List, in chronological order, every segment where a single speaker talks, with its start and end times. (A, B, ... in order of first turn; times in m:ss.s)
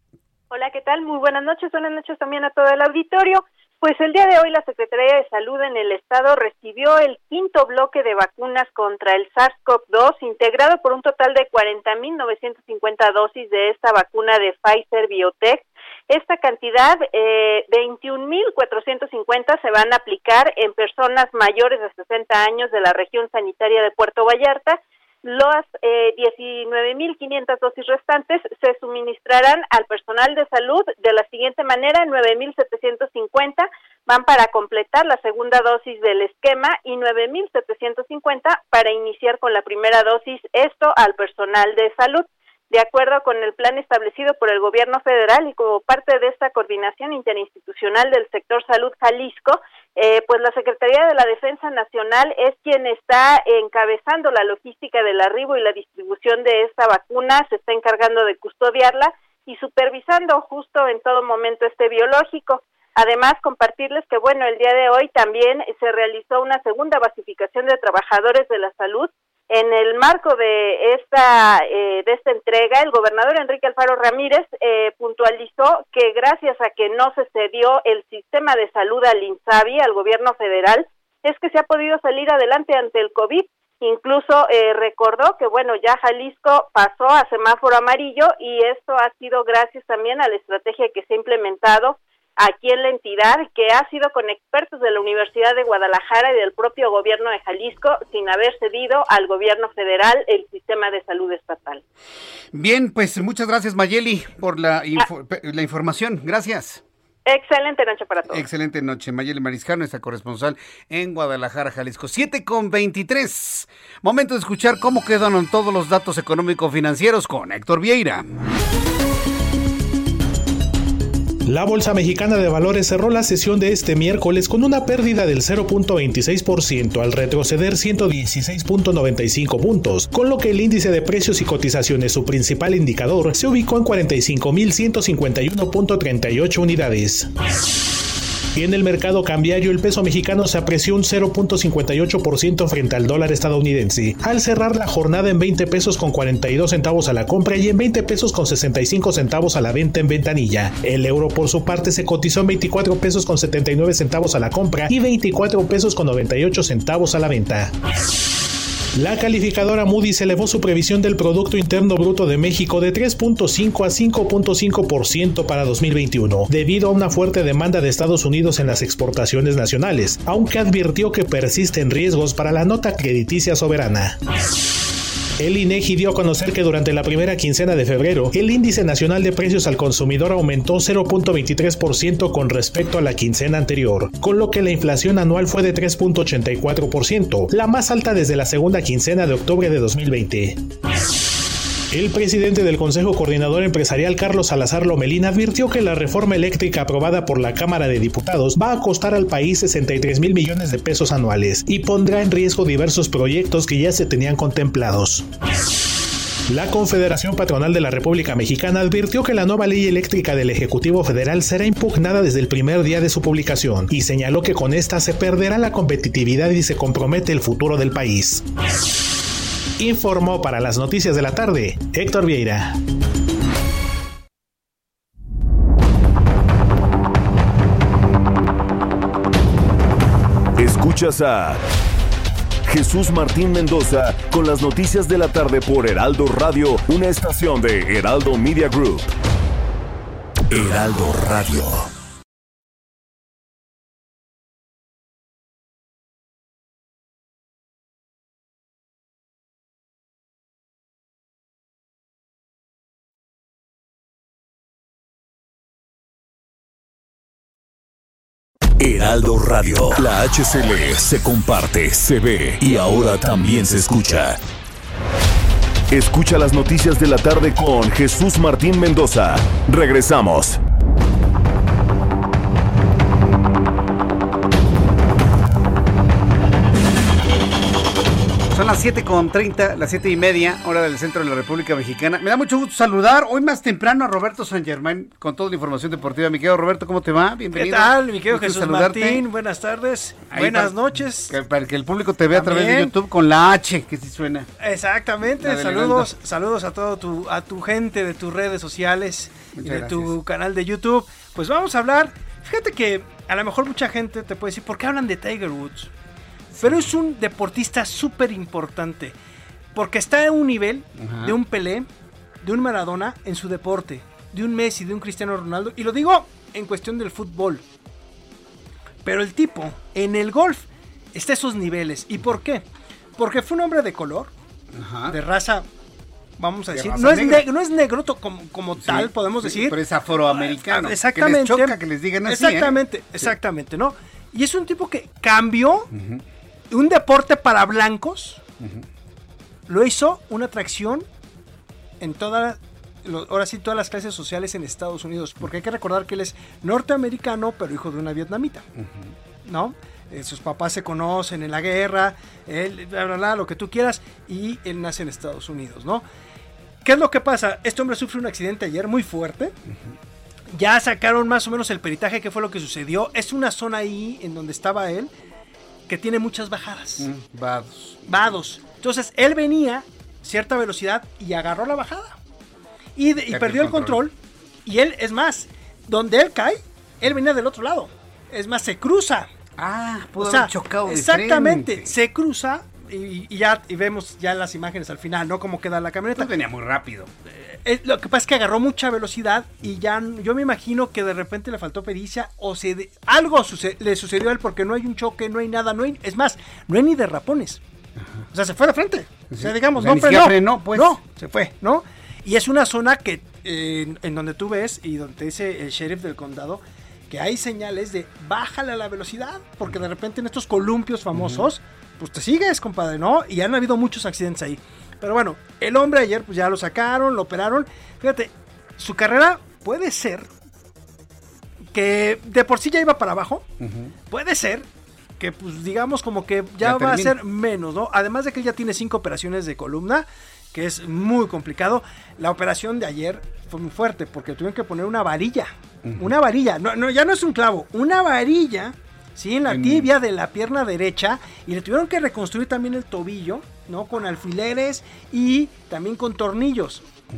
0:00.5-1:41.8 A
1:42.5-1:46.8 B
1:47.3-1:48.4 A
1:48.3-1:58.2 B
2:01.5-2:17.3 C
2:18.6-2:37.7 C
2:39.0-2:54.2 C
2:55.4-3:10.6 C
3:11.9-3:25.3 C
3:26.5-3:38.4 C
3:39.8-3:42.8 C
3:50.6-3:51.6 D
3:52.7-3:59.1 D
4:00.5-4:01.9 D
4:18.8-4:24.4 D
4:25.9-4:30.6 D
4:38.5-4:49.2 B
4:47.5-4:51.4 E
4:50.3-4:54.5 B
4:52.3-4:52.9 E
4:54.6-5:05.9 E
4:55.3-4:56.1 B
4:59.6-5:00.2 B
5:06.5-5:06.9 B
5:06.6-5:09.2 E
5:09.7-5:11.9 E
5:11.0-5:11.4 B
5:12.4-5:17.6 E
5:19.0-5:22.6 E
5:23.2-5:24.3 E
5:24.7-5:25.2 B
5:25.1-5:25.7 E
5:26.4-5:35.9 E
5:26.7-5:27.5 B
5:28.8-5:33.3 B
5:35.9-5:36.2 B
5:36.7-5:38.4 E
5:39.7-5:41.1 E
5:42.0-5:48.7 E
5:48.8-5:49.1 B
5:49.4-5:56.0 E
5:56.8-5:59.5 E
6:00.5-6:05.1 E
6:05.9-6:07.1 E
6:07.0-6:08.2 B
6:08.1-6:12.2 E
6:13.0-6:14.1 E
6:13.3-6:14.0 B
6:14.7-6:19.3 E
6:19.6-6:21.9 B
6:20.2-6:26.3 E
6:26.2-6:27.1 B
6:27.4-6:37.6 E
6:38.3-7:00.3 E
6:39.3-6:41.0 B
6:51.1-6:51.5 B
7:01.7-7:03.5 E
7:03.6-7:03.9 B
7:04.1-7:04.7 E
7:05.2-7:26.8 E
7:06.6-7:07.2 B
7:15.8-7:16.1 B
7:19.5-7:19.9 B